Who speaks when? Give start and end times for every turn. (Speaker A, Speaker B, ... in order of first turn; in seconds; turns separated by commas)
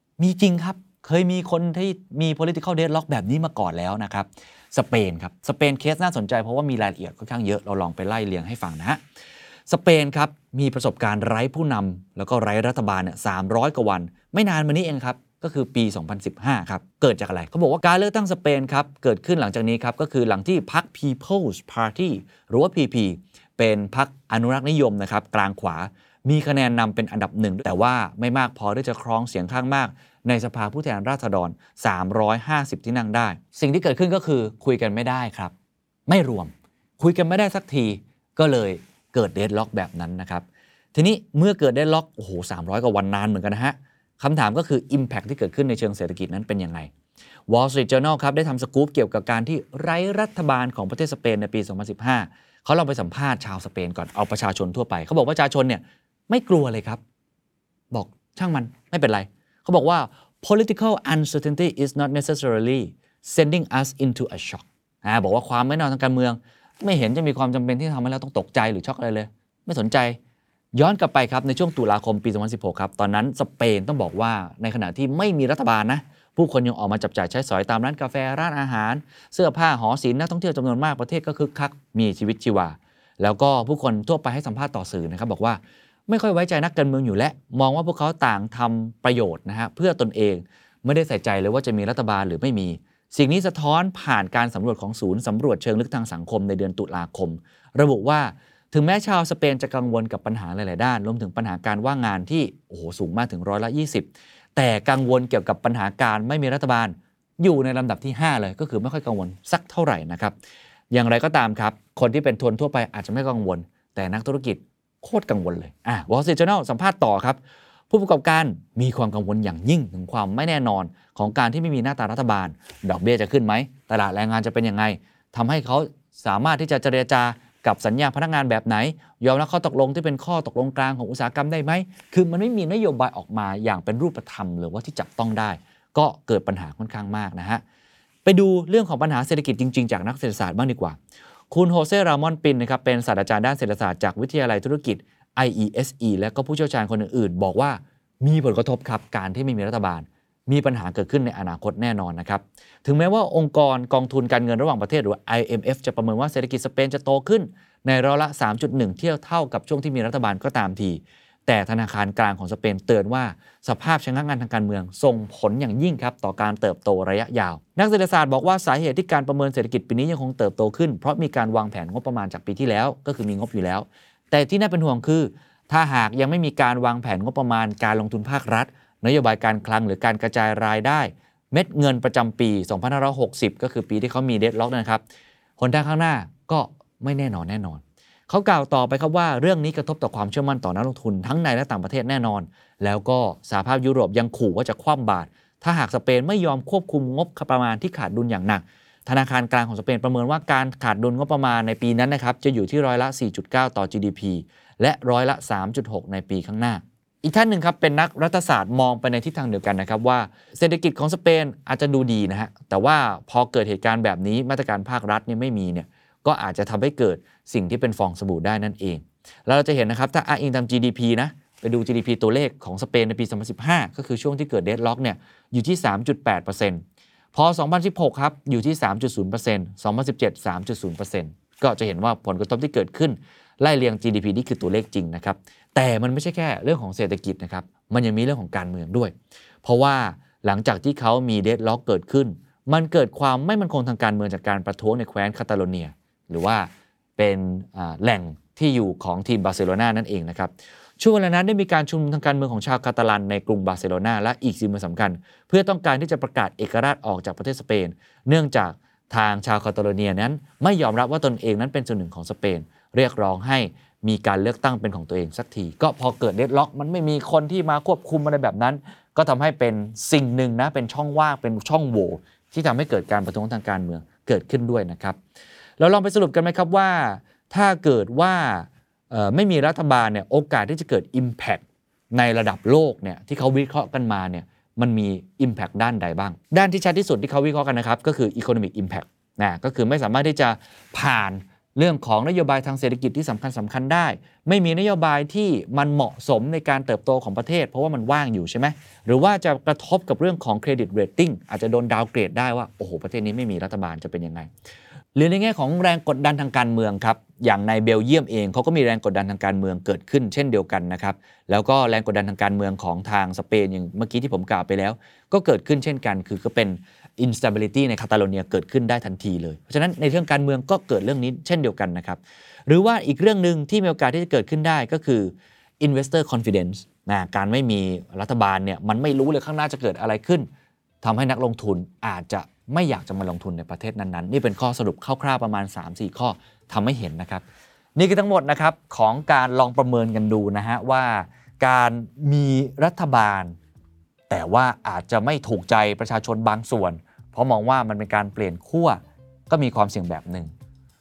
Speaker A: 0.2-9.0, Speaker A: 9.7-35.5, Speaker A: 36.1-46.9, Speaker A: 47.5-57.0, Speaker A: 57.9-70.2, Speaker A: 70.7-110.3, Speaker A: 110.9-117.4, Speaker A: 117.9-137.6, Speaker A: 138.2-141.0, Speaker A: 141.5-185.0, Speaker A: 185.6-226.8, Speaker A: 227.3-275.2, Speaker A: 275.8-304.5, Speaker A: 305.1-330.5, Speaker A: 331.0-337.4, Speaker A: 337.9-343.5, Speaker A: 344.3-350.5